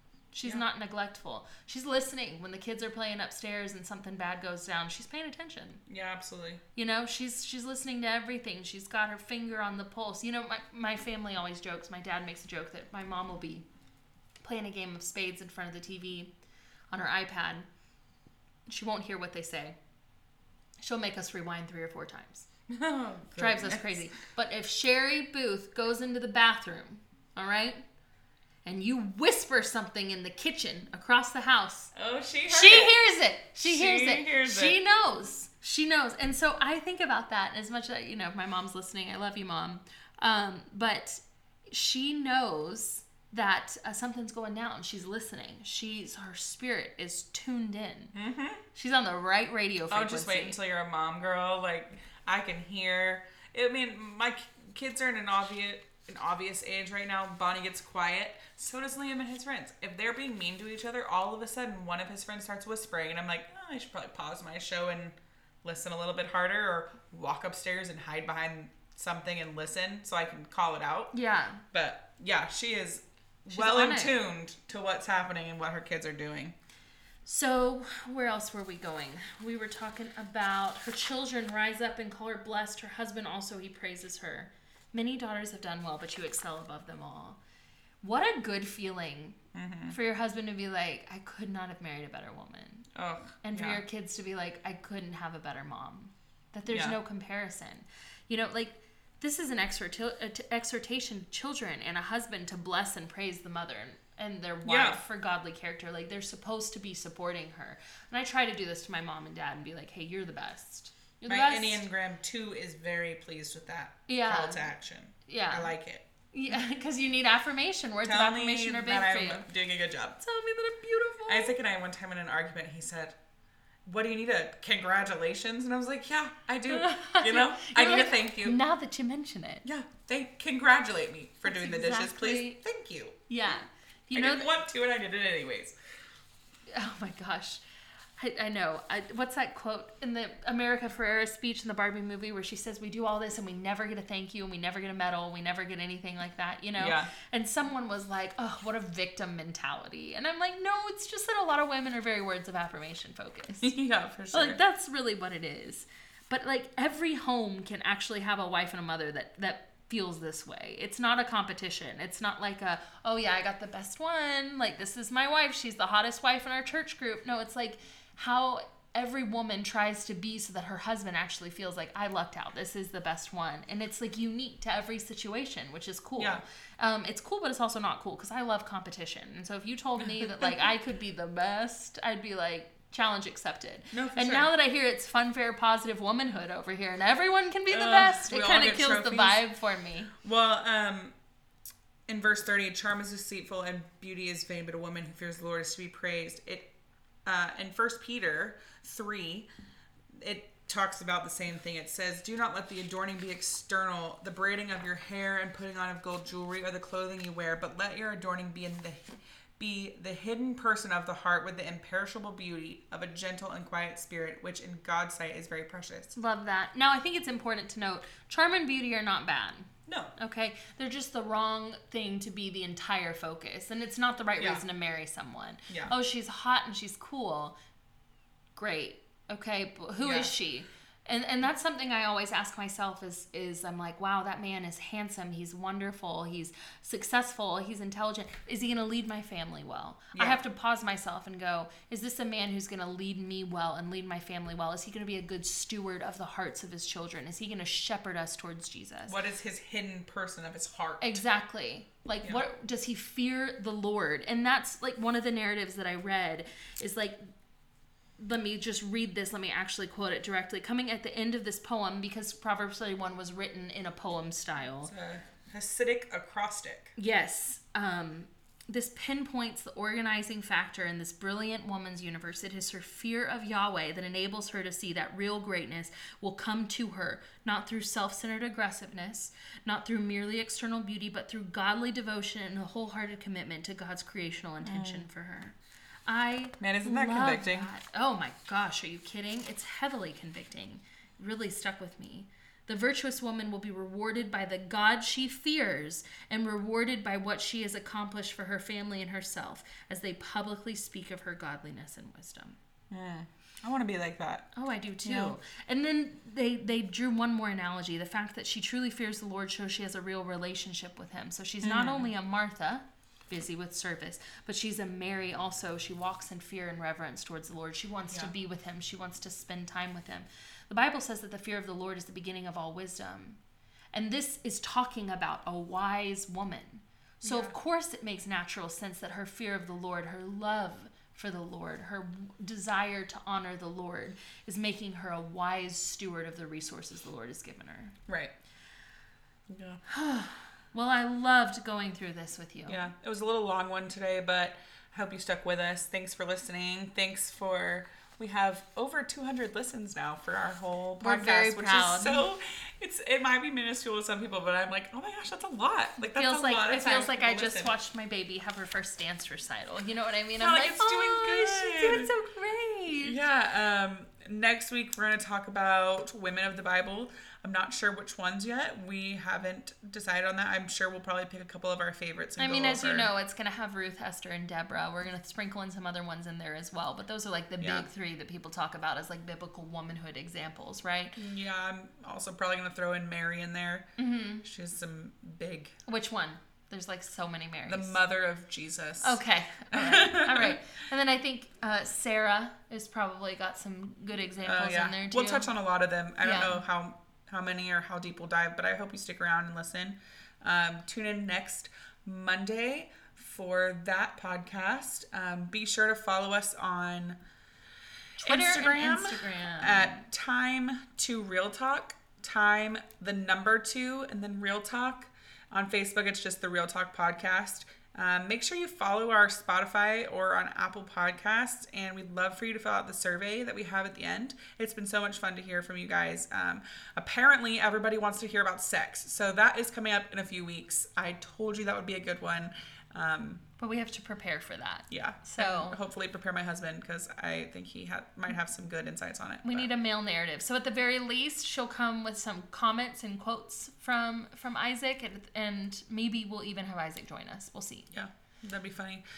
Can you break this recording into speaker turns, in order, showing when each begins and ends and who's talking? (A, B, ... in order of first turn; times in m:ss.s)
0:00.3-0:05.8 A
0:05.9-0:06.6 B
0:06.8-0:13.6 A
0:14.4-0:16.3 A
0:16.9-0:17.6 A
0:18.7-0:19.8 A
0:20.8-0:22.5 A
0:22.7-0:24.0 B
0:23.4-0:27.8 A
0:28.6-0:31.9 A
0:31.9-0:33.0 B
0:32.5-0:48.1 A
0:33.6-0:34.8 B
0:48.1-0:48.6 B
0:48.7-0:50.6 A
0:49.9-1:11.1 B
1:11.1-1:11.6 A
1:11.7-1:16.5 B
1:13.5-1:14.1 A
1:17.2-1:27.4 A
1:28.0-1:29.4 A
1:29.5-1:30.0 B
1:29.9-1:32.9 A
1:32.9-1:33.8 B
1:33.4-1:51.8 A
1:36.7-1:37.0 B
1:44.6-1:45.0 B
1:51.3-1:56.1 B
1:54.1-1:54.7 A
1:55.3-1:55.7 A
1:56.3-1:59.5 A
1:58.0-2:00.2 B
2:00.2-2:01.6 A
2:01.3-2:03.2 B
2:03.8-2:08.6 B
2:06.7-2:09.6 A
2:09.6-2:13.2 B
2:11.4-2:12.6 A
2:13.3-2:14.5 A
2:14.1-2:15.7 B
2:16.7-2:17.6 A
2:18.2-2:33.7 A
2:26.8-2:27.1 B
2:33.6-2:34.6 B
2:34.3-3:10.1 A
2:56.2-2:56.4 B
3:00.0-3:00.5 B
3:03.9-3:04.5 B
3:07.7-3:09.4 B
3:10.2-3:11.1 B
3:12.1-3:16.7 B
3:17.2-3:19.5 B
3:20.2-3:36.1 B
3:36.2-3:47.6 A
3:39.9-3:40.1 B
3:48.6-4:09.2 A
3:50.0-3:50.3 B
4:00.1-4:00.4 B
4:09.1-4:11.2 B
4:11.0-4:17.3 A
4:18.2-4:24.9 A
4:24.8-4:26.9 B
4:27.0-4:45.5 A
4:44.6-4:45.0 B
4:46.1-5:02.6 A
4:46.6-4:47.7 B
5:02.9-5:04.5 B
5:04.5-5:23.4 A
5:05.0-5:05.4 B
5:11.6-5:12.1 B
5:23.9-5:37.9 A
5:27.2-5:27.5 B
5:38.1-5:38.3 B
5:39.5-5:39.8 B
5:39.9-5:42.8 A
5:42.7-5:57.7 B
5:51.0-5:52.2 A
5:56.1-6:03.2 A
6:00.4-6:02.1 B
6:03.0-6:13.1 B
6:12.4-6:21.1 A
6:17.6-6:17.9 B
6:21.1-6:23.9 B
6:24.0-6:24.4 A
6:24.4-6:25.7 B
6:25.8-6:28.0 A
6:27.7-6:30.6 B
6:29.0-6:35.5 A
6:34.4-6:47.2 B
6:36.2-6:36.6 A
6:48.2-6:50.0 A
6:48.2-7:13.4 B
7:13.6-7:15.8 A
7:14.9-7:19.7 B
7:19.4-7:27.9 A
7:27.9-7:29.0 B